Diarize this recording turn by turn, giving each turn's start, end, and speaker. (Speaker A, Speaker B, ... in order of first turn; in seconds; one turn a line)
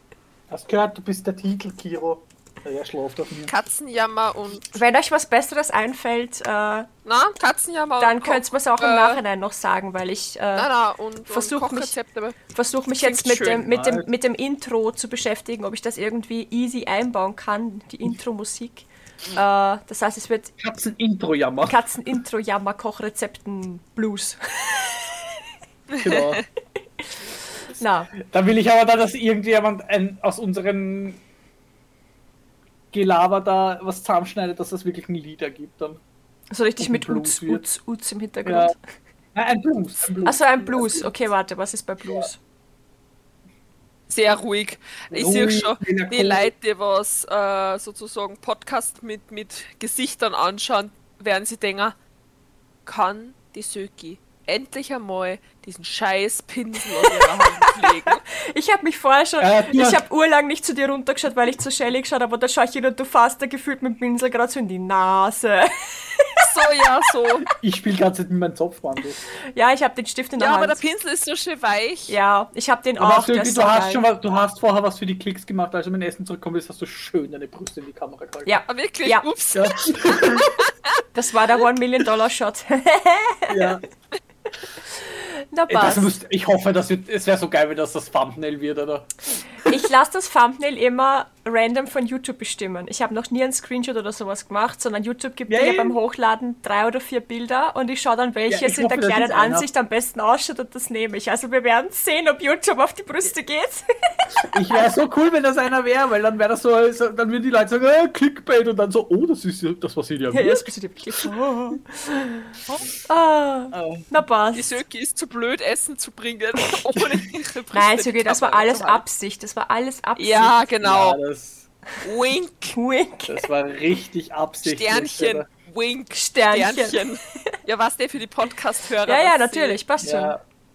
Speaker A: 0.5-3.5
Speaker B: 3.5-4.7
Speaker C: 4.7-6.9
Speaker B: 7.0-9.2
Speaker C: 8.0-10.7
Speaker B: 10.6-12.4
Speaker C: 11.3-11.9
Speaker C: 12.5-20.5
Speaker B: 13.0-13.7
Speaker A: 13.6-14.1
Speaker A: 20.6-21.8
Speaker C: 21.6-25.2
Speaker B: 25.9-26.4
Speaker A: 26.0-26.4
Speaker C: 27.8-28.1
Speaker A: 28.1-31.2
Speaker A: 32.9-36.0
Speaker C: 36.5-38.8
Speaker A: 36.8-37.6
Speaker A: 38.4-38.7
Speaker A: 39.3-41.1
Speaker C: 40.2-42.4
Speaker B: 44.1-52.0
Speaker A: 45.1-46.5
Speaker B: 52.9-58.2
Speaker C: 57.0-66.4
Speaker A: 59.4-60.0
Speaker B: 66.4-67.5
Speaker A: 67.5-69.2
Speaker C: 69.5-70.8
Speaker B: 70.4-72.1
Speaker C: 72.1-74.0
Speaker A: 73.0-78.6
Speaker C: 78.5-79.3
Speaker B: 78.7-79.9
Speaker A: 79.5-80.5
Speaker C: 81.1-83.8
Speaker A: 83.5-83.8
Speaker C: 84.9-86.1
Speaker A: 85.7-89.8
Speaker C: 89.7-104.3
Speaker A: 95.5-96.0
Speaker A: 98.5-99.7
Speaker A: 104.5-110.7
Speaker C: 110.3-114.8
Speaker A: 113.7-114.1
Speaker B: 114.5-119.0
Speaker C: 117.7-120.6
Speaker B: 120.2-121.2
Speaker A: 120.8-121.7
Speaker B: 122.0-122.8
Speaker C: 122.7-123.5
Speaker A: 123.3-125.5
Speaker B: 124.6-129.8
Speaker C: 126.2-127.6
Speaker C: 129.1-130.3
Speaker A: 130.0-130.4